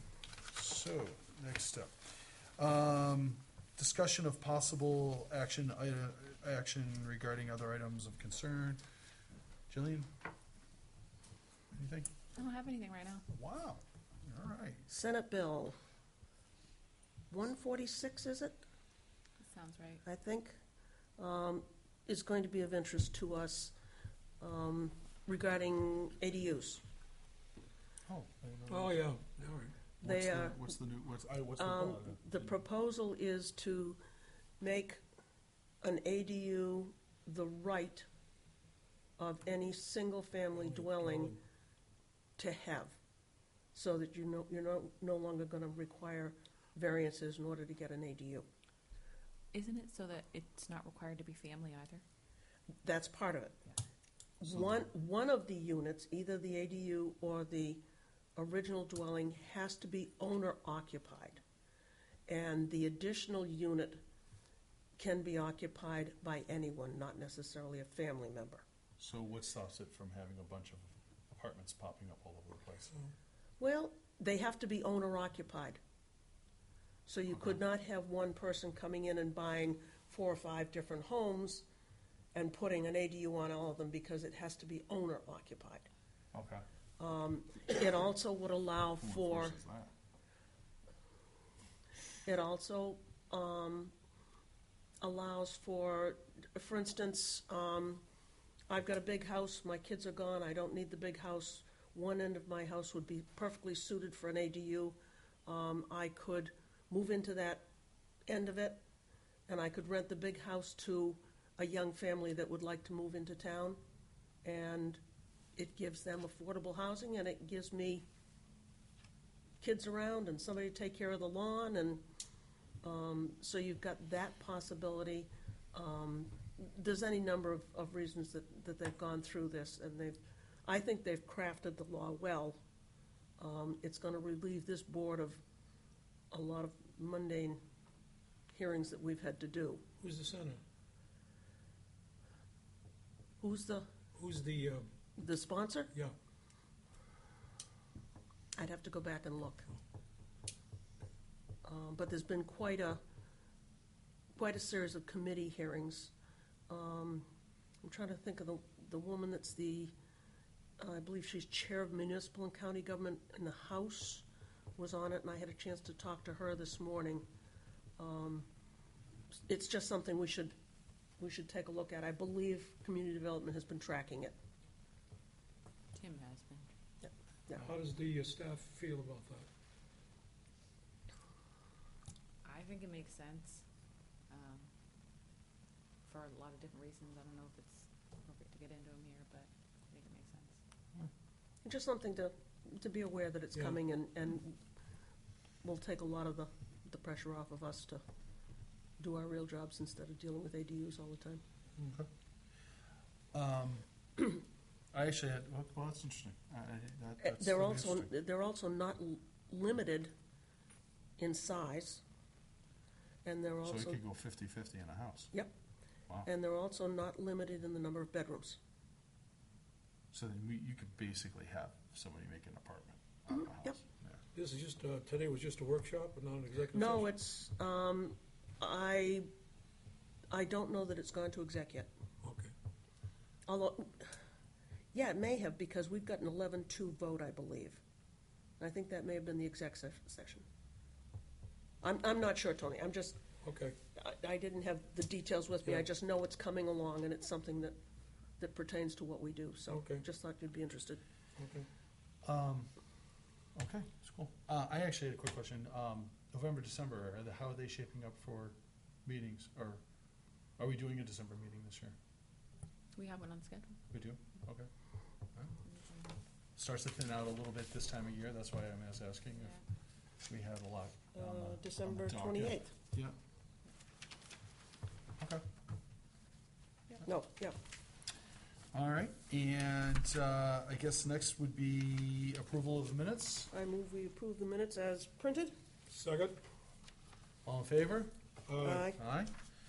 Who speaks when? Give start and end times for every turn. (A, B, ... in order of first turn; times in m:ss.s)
0:00.5-0:08.8 A
0:09.7-0:10.1 A
0:11.7-0:12.1 A
0:12.3-0:13.3 B
0:13.3-0:14.9 A
0:14.9-0:15.8 C
0:17.3-0:18.6 C
0:19.4-0:20.0 B
0:20.0-0:20.6 C
0:21.2-0:23.7 C
0:24.4-0:26.8 C
0:28.1-0:29.0 A
0:28.7-0:29.8 D
0:30.0-0:30.7 C
0:30.0-0:32.5 A
0:31.6-0:34.0 C
0:34.6-0:35.0 C
0:35.8-0:38.0 C
0:39.2-0:41.4 C
0:40.6-0:41.4 D
0:42.4-0:43.0 C
0:43.7-0:48.5 C
0:49.5-0:52.0 B
0:52.8-0:53.6 C
0:54.4-0:57.8 C
0:58.4-1:01.4 C
1:02.3-1:04.0 C
1:05.0-1:08.6 C
1:09.0-1:13.0 A
1:13.6-1:15.8 C
1:17.0-1:21.6 C
1:22.3-1:25.9 C
1:26.3-1:26.6 A
1:27.0-1:29.6 C
1:29.0-1:29.9 A
1:32.2-1:33.9 C
1:35.0-1:38.0 C
1:38.7-1:47.6 C
1:48.3-1:48.8 C
1:49.5-1:53.8 C
1:54.4-1:55.0 C
1:55.6-1:58.0 C
1:59.6-2:02.0 C
2:02.8-2:12.6 C
2:13.4-2:15.4 C
2:16.3-2:17.6 C
2:18.5-2:19.8 C
2:20.0-2:20.6 D
2:23.4-2:23.9 C
2:24.1-2:24.9 D
2:25.2-2:25.9 C
2:28.5-2:29.7 C
2:31.6-2:33.0 C
2:34.4-2:36.1 C
2:36.7-2:37.3 C
2:37.8-2:39.9 C
2:40.8-2:44.2 C
2:44.8-2:47.2 C
2:48.0-2:48.5 C
2:49.5-2:50.5 C
2:51.2-2:54.4 C
2:55.9-2:56.7 B
2:57.0-2:57.7 C
2:57.6-2:59.5 D
3:02.4-3:03.6 B
3:04.3-3:04.7 B
3:06.0-3:10.6 B
3:11.6-3:14.6 C
3:15.6-3:18.0 C
3:19.0-3:21.4 C
3:23.3-3:23.8 A
3:24.9-3:28.1 A
3:27.2-3:30.1 C
3:31.2-3:32.0 C
3:33.2-3:34.0 C
3:33.6-3:35.3 A
3:36.2-3:38.6 C
3:40.1-3:44.2 A
3:44.3-3:47.1 D
3:46.7-3:49.3 C
3:50.3-3:51.9 C
3:52.2-3:52.5 D
3:53.4-3:54.2 C
3:54.9-3:57.8 C
3:58.6-4:00.4 C
4:01.8-4:03.2 C
4:03.4-4:03.8 D
4:03.9-4:07.8 C
4:08.4-4:11.0 C
4:09.7-4:10.0 D
4:11.4-4:11.7 D
4:12.2-4:12.7 A
4:13.5-4:19.8 A
4:20.6-4:21.9 A
4:22.9-4:23.8 B
4:23.9-4:24.7 A
4:25.6-4:26.2 B
4:26.6-4:29.5 A
4:30.3-4:33.1 A
4:31.1-4:32.7 C
4:35.2-4:35.4 A
4:37.0-4:37.6 C
4:38.7-4:43.5 A
4:43.5-4:45.5 C
4:45.9-4:46.4 D
4:47.4-4:48.1 A
4:48.5-4:48.9 D
4:48.6-4:49.0 C
4:49.0-4:49.3 A